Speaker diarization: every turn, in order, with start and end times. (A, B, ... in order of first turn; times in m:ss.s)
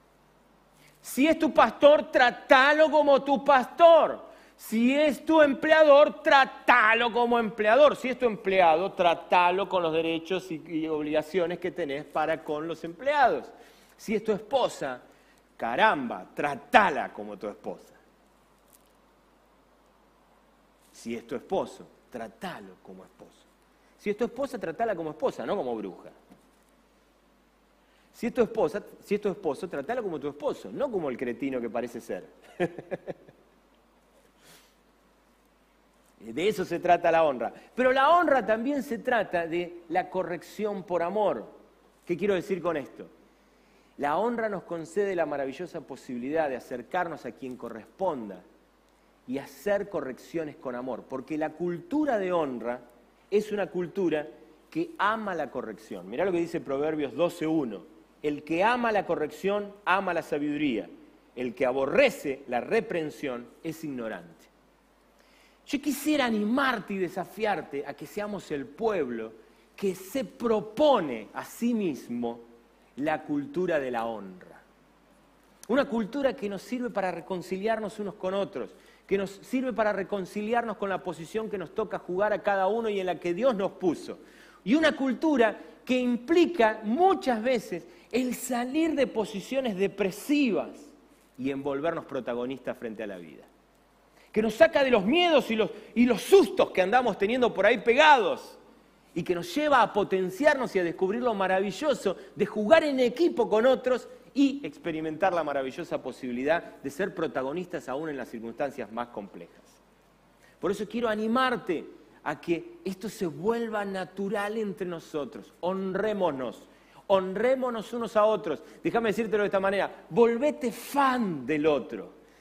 0:01.0-0:15.0 A
0:15.6-0:18.0 A
0:20.9-0:23.5 A
0:24.0-0:26.2 A
0:28.1-0:33.1 A
0:36.2-0:43.1 A
0:44.0-0:48.4 A
0:49.3-1:04.5 A
1:05.6-1:12.4 A
1:13.0-1:14.6 A
1:15.7-1:33.5 A
1:34.3-1:38.6 A
1:39.1-1:49.8 A
1:50.6-2:02.2 A